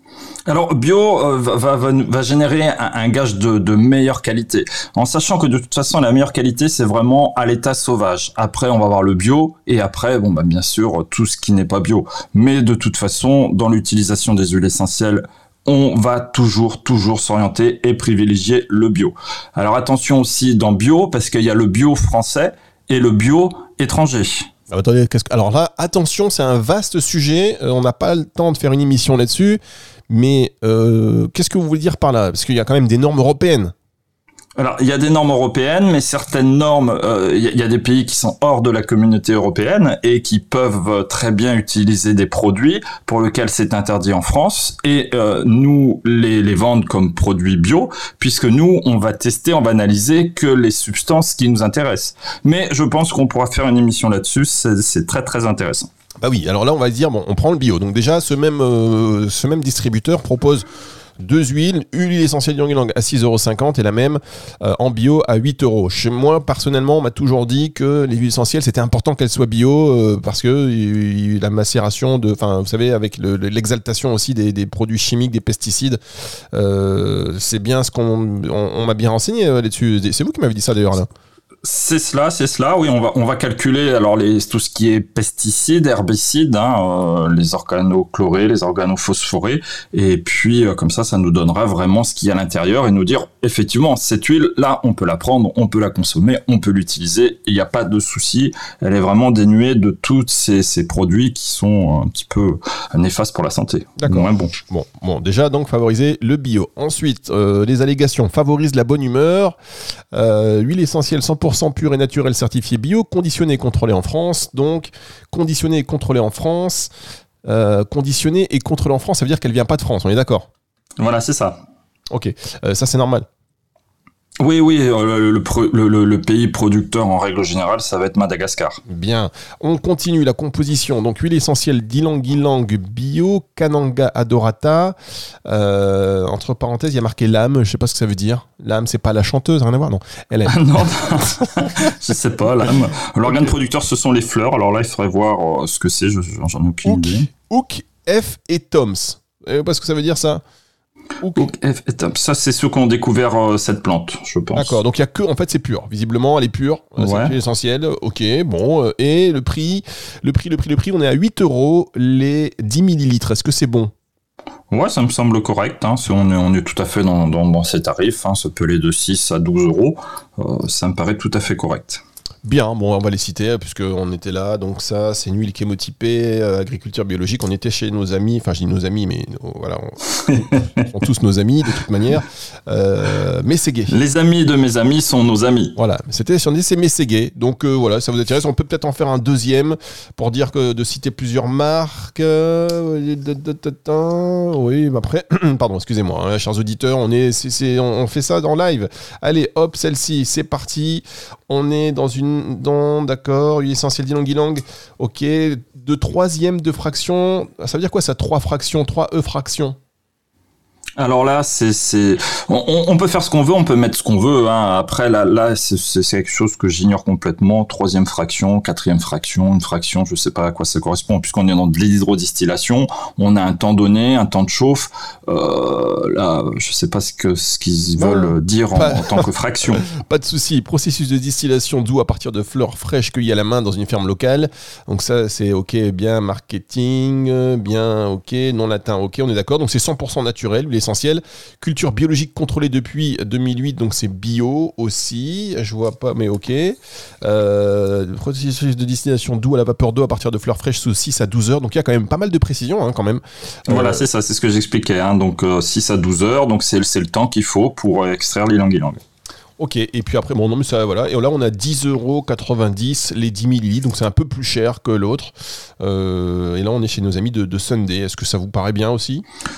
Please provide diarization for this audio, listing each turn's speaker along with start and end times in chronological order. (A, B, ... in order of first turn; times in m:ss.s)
0:00.5-0:24.5 A
0:24.7-0:33.7 B
0:34.6-0:55.9 A
0:56.2-1:00.6 B
1:01.2-1:16.0 B
1:16.5-1:21.1 B
1:21.6-1:44.6 A
1:44.0-1:49.6 B
1:50.1-1:56.9 B
1:57.4-2:00.5 B
2:01.0-2:01.6 A
2:02.1-2:03.2 B
2:04.4-2:08.8 A
2:08.9-2:14.9 B
2:15.5-2:21.5 B
2:20.5-2:27.3 A
2:23.3-2:23.5 B
2:26.8-2:30.4 B
2:31.2-2:31.5 B
2:31.4-2:34.8 A
2:34.5-2:43.9 B
2:37.0-2:37.4 A
2:44.7-2:52.0 A
2:52.4-3:03.9 B
3:03.9-3:05.8 A
3:05.8-3:29.8 B
3:31.0-3:49.8 A
3:48.0-4:14.0 B
4:13.7-4:19.0 A
4:19.6-4:29.2 B